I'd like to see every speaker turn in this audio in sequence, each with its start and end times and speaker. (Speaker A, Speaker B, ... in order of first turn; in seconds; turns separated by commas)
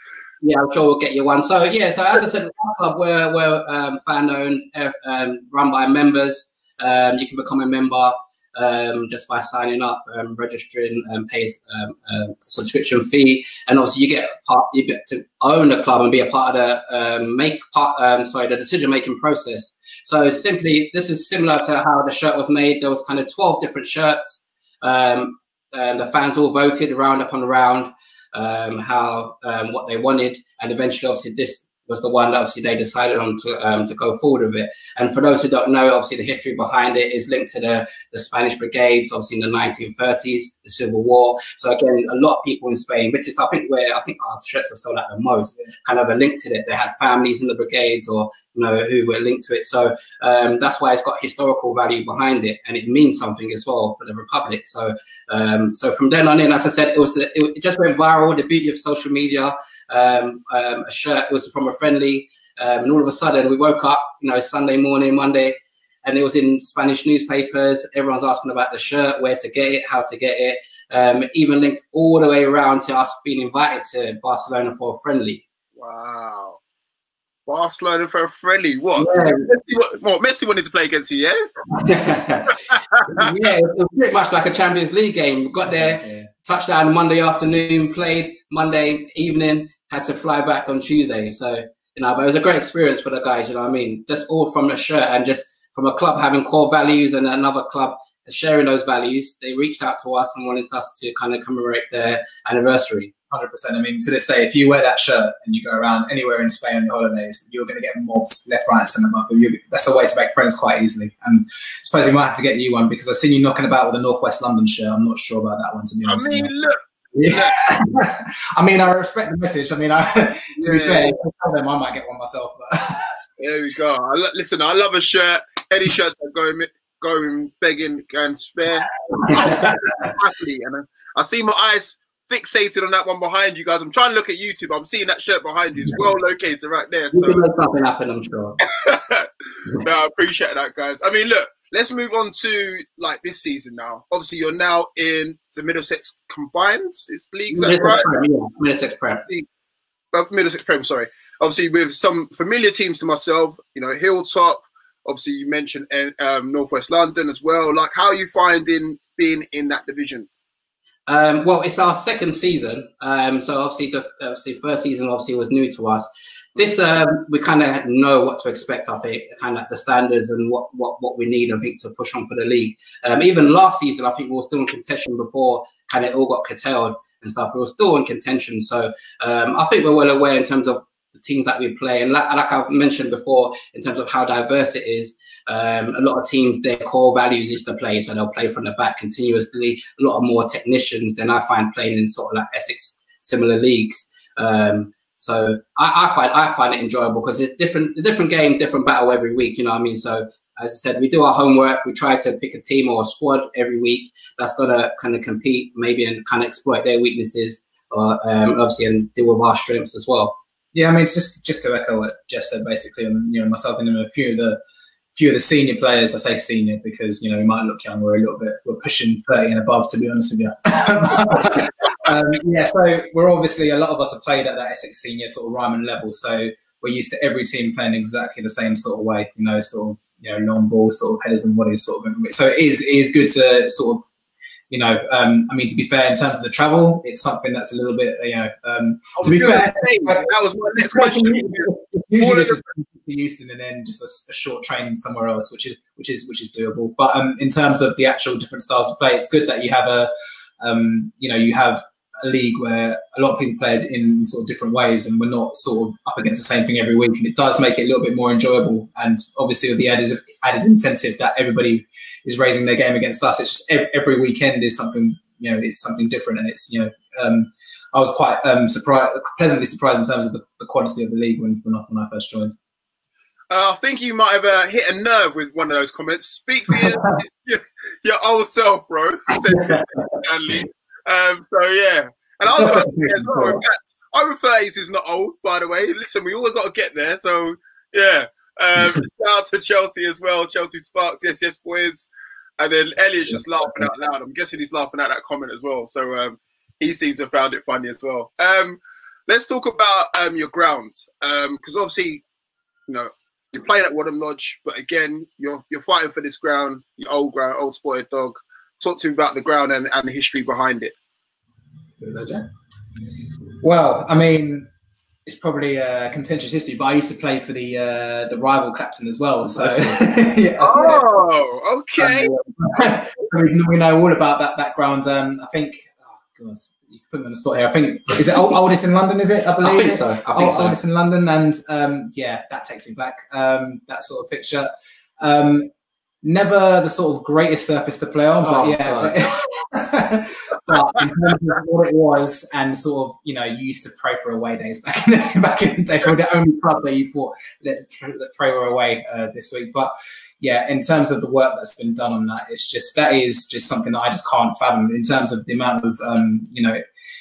Speaker A: 0.4-75.4, Speaker B: 75.8-76.6, Speaker B: 77.5-81.4, Speaker A: 79.0-79.5, Speaker A: 81.7-103.1, Speaker B: 82.7-83.0, Speaker C: 85.7-86.3, Speaker C: 103.3-116.5, Speaker B: 116.0-117.5, Speaker C: 117.1-123.1, Speaker B: 120.6-121.1, Speaker B: 123.4-137.4, Speaker A: 129.2-129.7, Speaker A: 137.1-138.6, Speaker B: 138.7-148.0, Speaker A: 147.5-149.2, Speaker B: 150.1-160.3, Speaker A: 161.1-210.3, Speaker C: 210.7-214.6, Speaker C: 215.1-234.0, Speaker C: 234.7-272.5, Speaker B: 239.2-242.6, Speaker B: 273.5-302.2, Speaker C: 276.7-277.1, Speaker C: 279.5-279.9, Speaker C: 282.5-283.6, Speaker C: 293.3-293.9, Speaker B: 302.9-310.9, Speaker A: 312.0-312.4, Speaker C: 313.6-314.7, Speaker C: 315.2-321.1, Speaker A: 319.5-320.0, Speaker B: 320.6-322.3, Speaker C: 322.0-335.7, Speaker A: 329.6-330.8, Speaker C: 336.2-356.8, Speaker A: 338.4-339.2